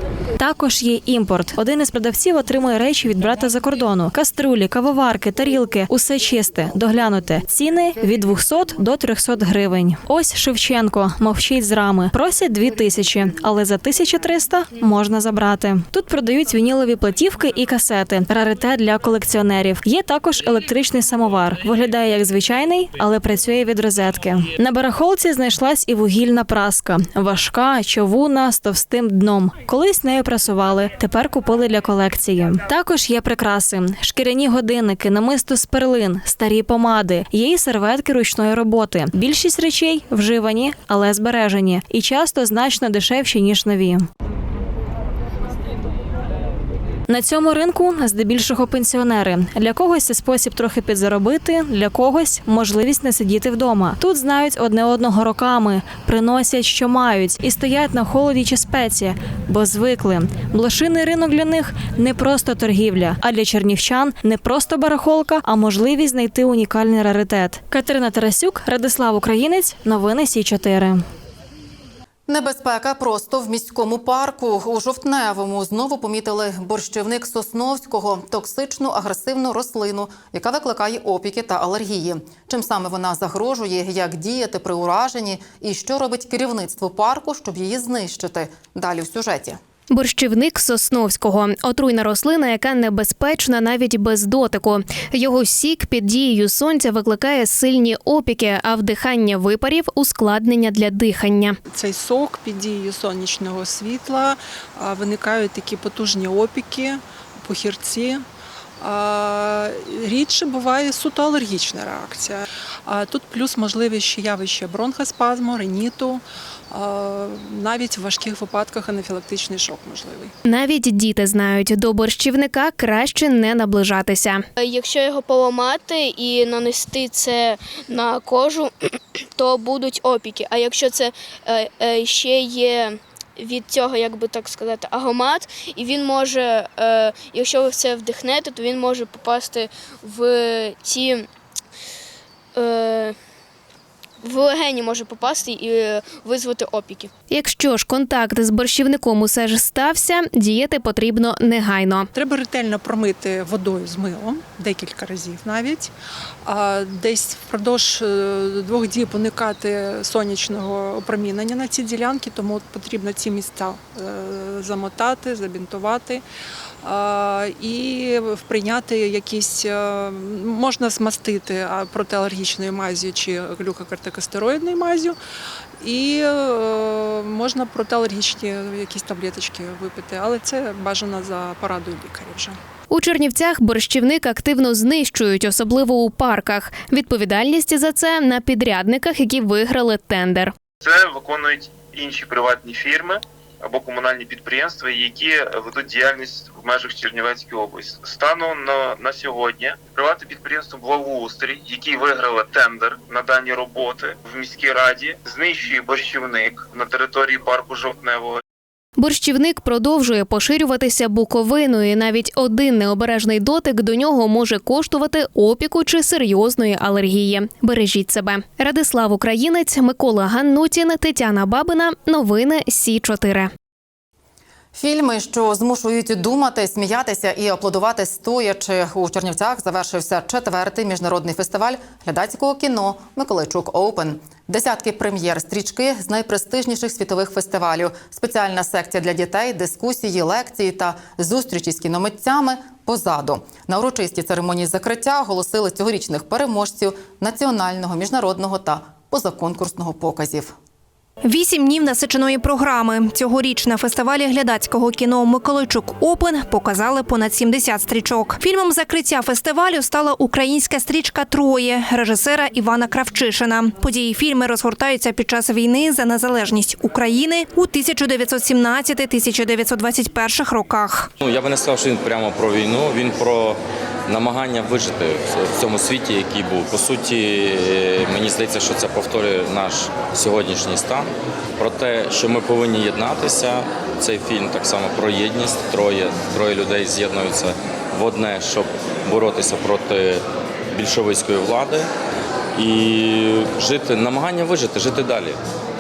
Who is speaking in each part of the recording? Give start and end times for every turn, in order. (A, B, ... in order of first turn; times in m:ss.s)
0:00.4-0:44.1 A
0:47.1-1:11.0 A
1:12.3-1:29.6 B
1:29.9-1:41.6 C
1:41.7-1:48.3 D
1:48.8-2:00.3 D
2:00.5-2:04.4 C
2:04.6-2:21.3 E
2:22.6-2:23.2 E
2:24.2-2:27.1 E
2:27.3-2:32.1 C
2:32.1-2:35.9 D
2:36.4-2:46.2 D
2:46.8-2:55.2 D
2:55.8-3:02.6 D
3:02.9-3:10.5 C
3:10.8-3:28.4 F
3:29.0-3:43.5 C
3:44.8-4:10.6 B
4:11.2-4:31.1 G
4:31.2-4:51.9 H
4:52.6-4:55.4 H